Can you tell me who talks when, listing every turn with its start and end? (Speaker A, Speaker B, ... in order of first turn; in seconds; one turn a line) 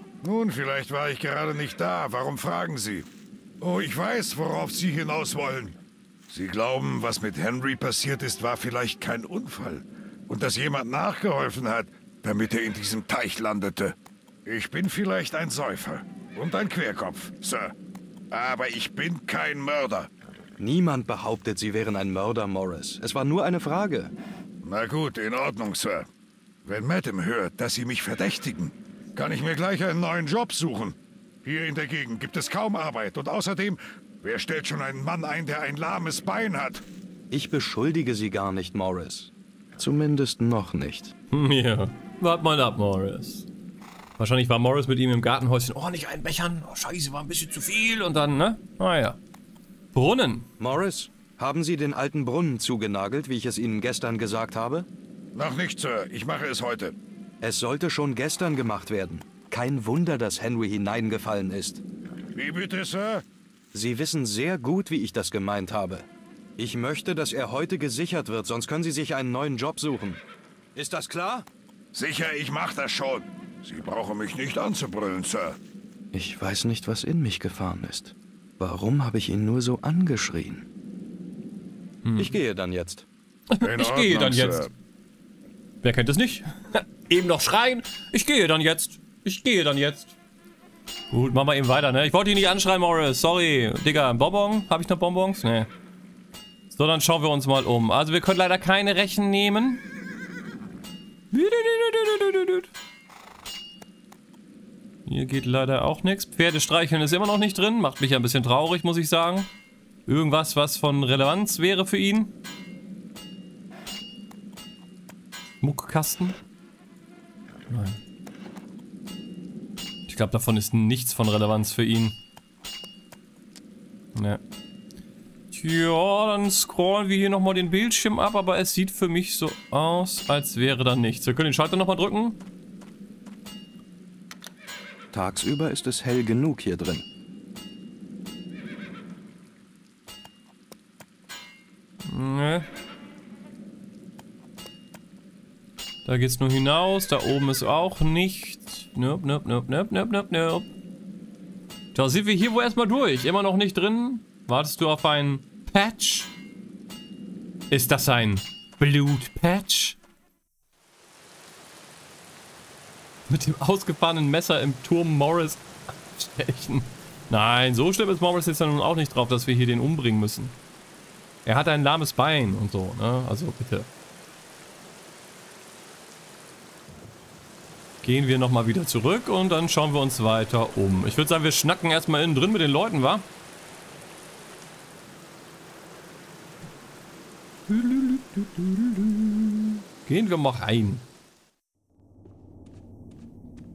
Speaker A: 0.2-3.1
Speaker A: 3.6-5.8
Speaker A: 6.3-13.9
Speaker A: 14.5-17.7
Speaker A: 18.3-20.1
Speaker B: 20.6-24.1
Speaker A: 24.6-26.1
Speaker A: 26.6-36.9
Speaker B: 37.3-41.1
Speaker C: 41.3-43.5
Speaker C: 44.2-49.2
Speaker C: 49.9-50.5
Speaker B: 50.6-54.9
Speaker A: 55.3-57.0
Speaker B: 57.4-61.8
Speaker A: 62.4-63.2
Speaker B: 63.7-70.2
Speaker B: 70.8-71.5
Speaker A: 71.9-75.6
Speaker B: 76.1-80.7
Speaker C: 82.0-82.4
Speaker B: 82.2-83.1
Speaker C: 83.5-84.7
Speaker A: 83.6-84.7
Speaker C: 85.8-90.1
Speaker C: 91.1-95.7
Speaker C: 96.7-99.8
Speaker C: 101.3-102.7
Speaker C: 105.1-109.5
Speaker C: 110.1-112.3
Speaker C: 115.6-116.4
Speaker C: 117.7-118.0
Speaker C: 120.1-122.2
Speaker C: 124.2-124.4
Speaker C: 125.5-132.4
Speaker B: 135.1-137.1
Speaker C: 142.1-142.7
Speaker C: 146.1-150.7
Speaker C: 151.9-156.3
Speaker C: 157.7-160.0
Speaker C: 163.3-170.6
Speaker C: 171.4-173.9
Speaker C: 178.0-183.3
Speaker C: 187.7-191.1